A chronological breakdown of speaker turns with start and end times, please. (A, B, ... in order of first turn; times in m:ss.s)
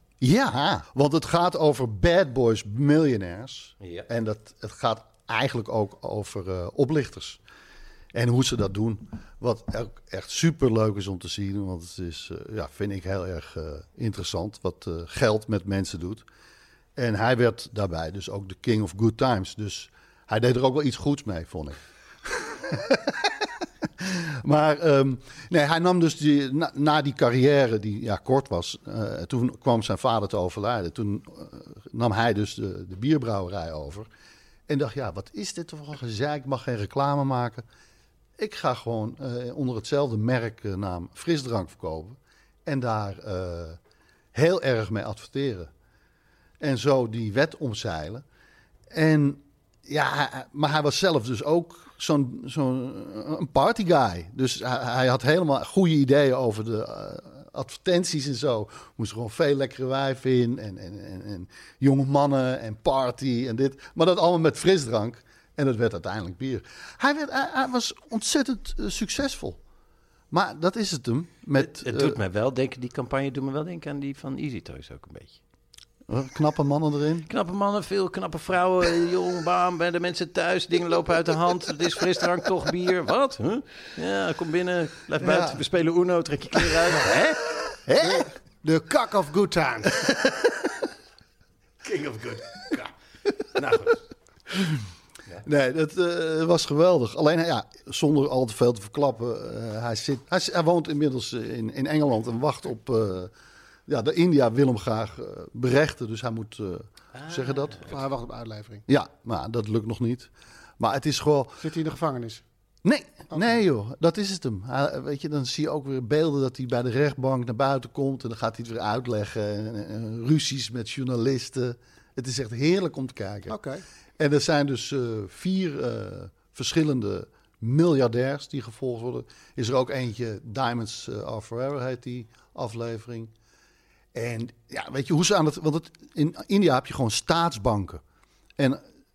0:00.2-0:07.4 A
0:03.8-0:04.1 B
0:08.1-0:16.2 A
0:17.0-0:23.5 A
0:24.0-0:34.1 A
0:34.7-0:37.6 A
0:38.4-0:43.8 A
0:44.3-0:45.7 A
0:46.6-0:48.2 A
0:48.9-1:09.6 A
1:10.3-1:12.2 A
1:11.6-1:15.4 B
1:16.1-1:17.3 A
1:17.3-1:27.4 B
1:25.2-1:25.6 A
1:27.9-1:28.3 A
1:28.0-1:30.1 C
1:31.8-1:32.9 B
1:33.5-1:34.0 B
1:35.4-1:43.3 A
1:43.9-1:47.9 A
1:47.1-1:47.9 B
1:47.9-1:48.8 C
1:48.9-1:51.6 A
1:51.6-1:52.4 C
1:52.8-2:03.6 A
1:53.3-1:53.6 C
2:03.5-2:03.8 C
2:04.2-2:13.3 A
2:14.1-2:18.0 A